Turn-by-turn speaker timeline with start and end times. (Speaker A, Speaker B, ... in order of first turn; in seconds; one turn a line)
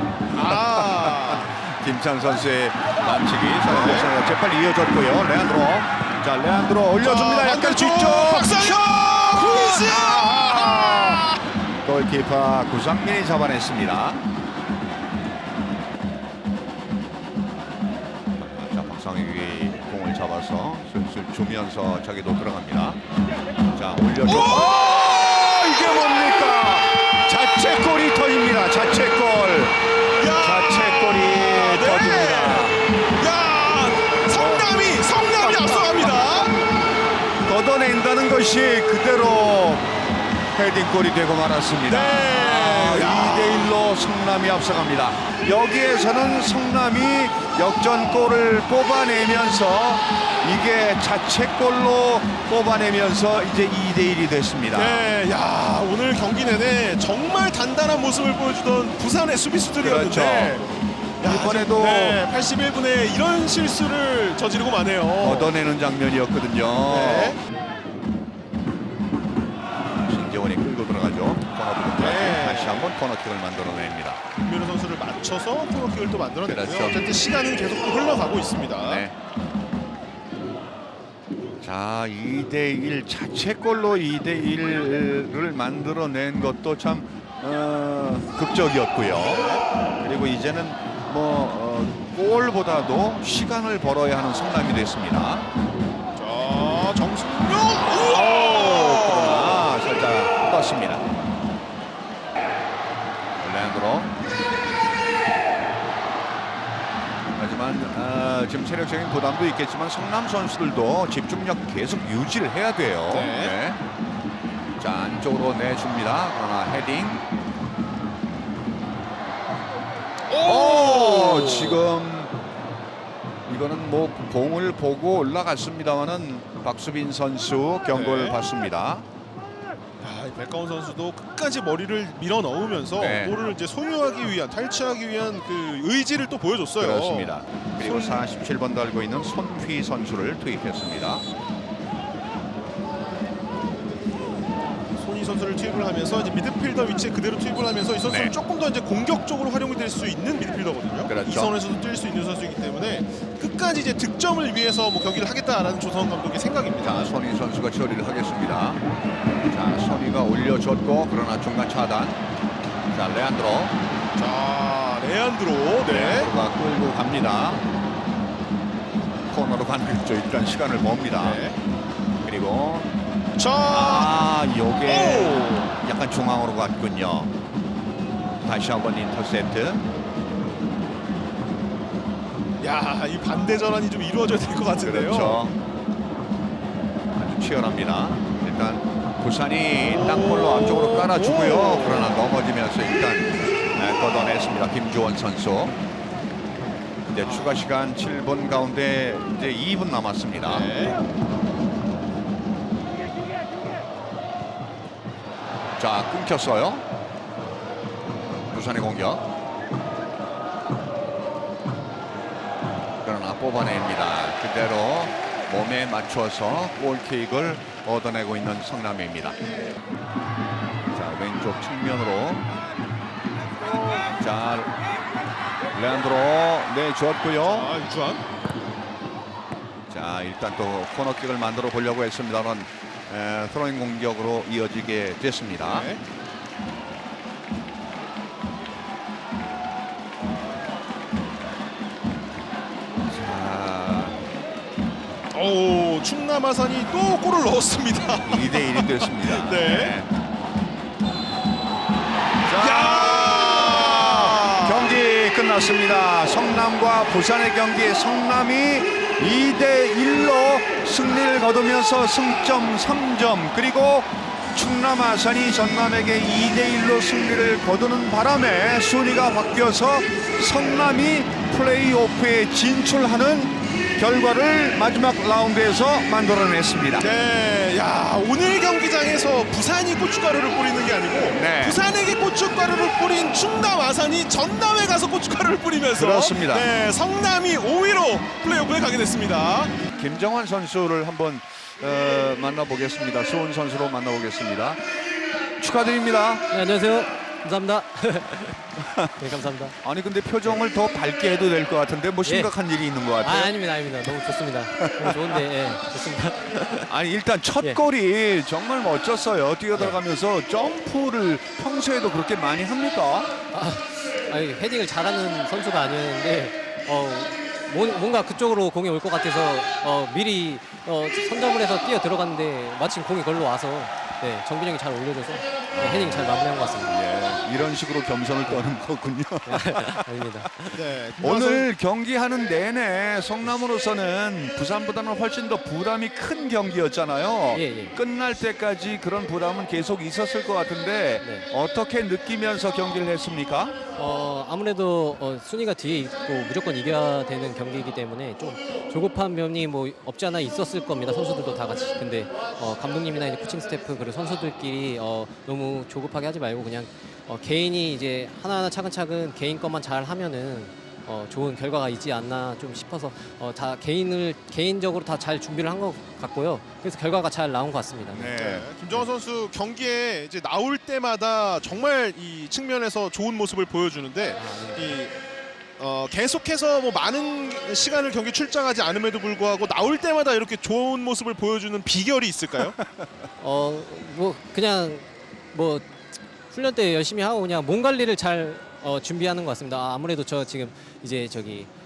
Speaker A: 0.3-1.5
Speaker B: 0.3-11.3
Speaker A: 3.6-4.1
Speaker A: 7.0-11.4
Speaker B: 11.8-14.2
Speaker B: 18.4-23.0
Speaker B: 23.7-29.8
Speaker A: 24.2-24.9
Speaker A: 30.1-36.5
Speaker B: 30.3-32.8
Speaker B: 34.3-36.2
Speaker B: 37.4-39.9
Speaker B: 40.5-55.0
Speaker A: 41.9-43.6
Speaker A: 54.7-60.7
Speaker B: 59.8-60.6
Speaker A: 61.2-65.5
Speaker B: 61.2-62.2
Speaker B: 65.2-67.4
Speaker A: 66.9-67.4
Speaker B: 70.0-74.2
Speaker A: 72.0-72.9
Speaker A: 74.4-79.0
Speaker B: 76.5-77.0
Speaker B: 78.8-79.2
Speaker B: 81.6-95.5
Speaker A: 89.2-89.6
Speaker A: 96.2-99.7
Speaker B: 98.1-101.0
Speaker B: 103.4-104.1
Speaker B: 107.3-113.8
Speaker A: 113.1-113.5
Speaker B: 114.8-117.2
Speaker A: 120.3-121.8
Speaker B: 120.4-122.3
Speaker B: 123.5-129.1
Speaker A: 127.9-128.4
Speaker A: 130.0-138.2
Speaker B: 133.0-133.4
Speaker B: 136.8-141.2
Speaker A: 144.9-157.1
Speaker B: 148.1-148.3
Speaker B: 151.1-151.6
Speaker B: 156.8-158.8
Speaker B: 159.5-162.2
Speaker B: 162.9-163.8
Speaker A: 164.2-166.3
Speaker B: 165.8-167.7
Speaker B: 169.3-171.4
Speaker A: 171.2-171.6
Speaker B: 172.2-172.9
Speaker A: 173.4-174.2
Speaker B: 173.7-177.3
Speaker A: 174.8-175.8
Speaker B: 178.4-179.9
Speaker A: 182.6-185.4
Speaker B: 184.8-185.6
Speaker B: 187.2-195.8
Speaker A: 189.8-192.2
Speaker B: 197.1-200.7
Speaker A: 197.2-197.6
Speaker A: 200.4-201.0
Speaker B: 205.8-206.8
Speaker B: 208.5-209.2
Speaker B: 213.0-219.4
Speaker B: 220.9-222.5
Speaker B: 224.0-224.7
Speaker B: 225.7-227.7
Speaker A: 227.4-228.2
Speaker B: 229.9-235.9
Speaker A: 235.6-236.0
Speaker B: 243.1-244.2
Speaker A: 245.3-250.0
Speaker B: 248.2-250.1
Speaker B: 252.5-277.1
Speaker A: 252.5-255.0
Speaker A: 277.0-289.8
Speaker B: 281.4-281.8
Speaker B: 285.9-286.7
Speaker B: 289.9-294.8
Speaker B: 295.6-296.5
Speaker C: 296.5-299.8
Speaker B: 298.8-299.1
Speaker B: 299.8-303.5
Speaker C: 302.2-302.5
Speaker C: 303.2-306.9
Speaker B: 304.8-305.4
Speaker B: 306.9-313.3
Speaker C: 313.5-326.9
Speaker B: 325.7-330.1
Speaker C: 329.5-330.8
Speaker A: 330.7-331.7
Speaker B: 331.2-343.8
Speaker C: 337.5-338.0
Speaker C: 341.2-341.5
Speaker C: 344.0-368.4
Speaker B: 368.1-368.7
Speaker A: 368.4-375.1
Speaker C: 374.4-375.0
Speaker A: 375.8-382.8
Speaker C: 383.4-385.9
Speaker C: 386.5-391.7